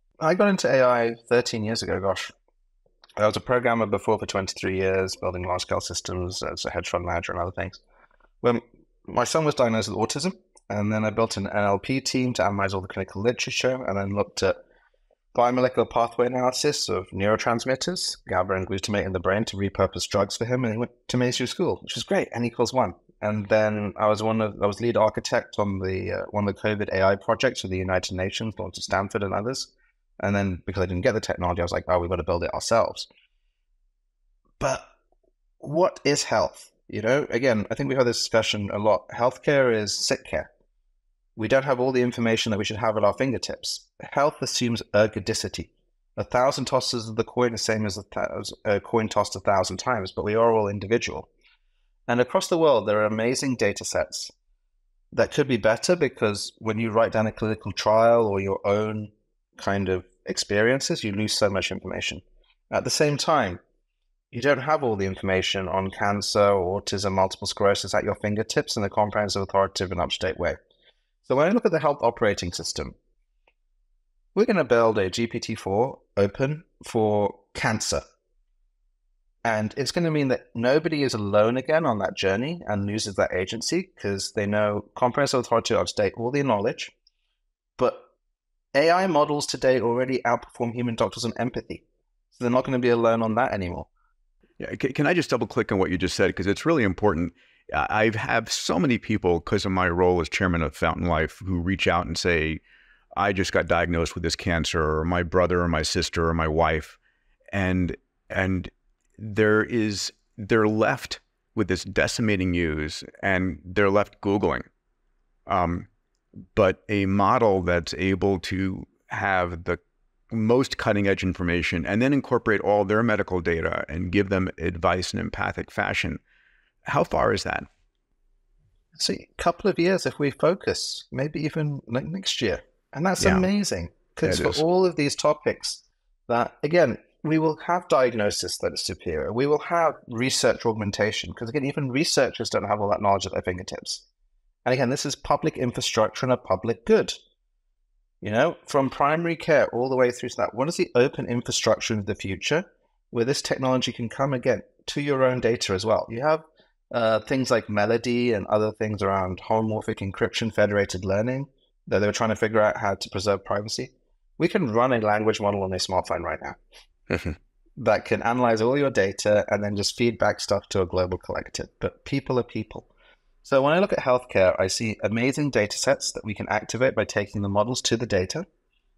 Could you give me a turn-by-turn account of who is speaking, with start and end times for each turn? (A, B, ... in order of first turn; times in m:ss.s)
0:00.2-0:02.3 A
0:03.2-0:07.8 A
0:08.4-0:14.6 A
0:15.3-0:33.1 A
0:34.6-0:34.9 A
0:35.6-0:40.5 A
0:41.4-0:51.3 A
0:52.1-0:54.3 A
0:55.1-1:03.6 A
1:04.3-1:10.6 A
1:11.2-1:13.0 A
1:14.3-1:18.0 A
1:19.4-1:26.9 A
1:27.8-1:28.1 A
1:28.7-1:33.9 A
1:34.6-1:42.6 B
1:43.2-1:47.0 B
1:47.5-1:54.7 B
1:55.5-1:55.9 B
1:56.5-1:59.8 B
2:00.3-2:06.2 B
2:06.9-2:07.7 B
2:09.0-2:24.0 A
2:13.2-2:13.5 B
2:14.2-2:14.6 B
2:24.6-2:27.2 A
2:28.2-2:46.6 A
2:47.1-2:47.4 B
2:47.8-2:52.9 A
2:53.4-2:58.4 A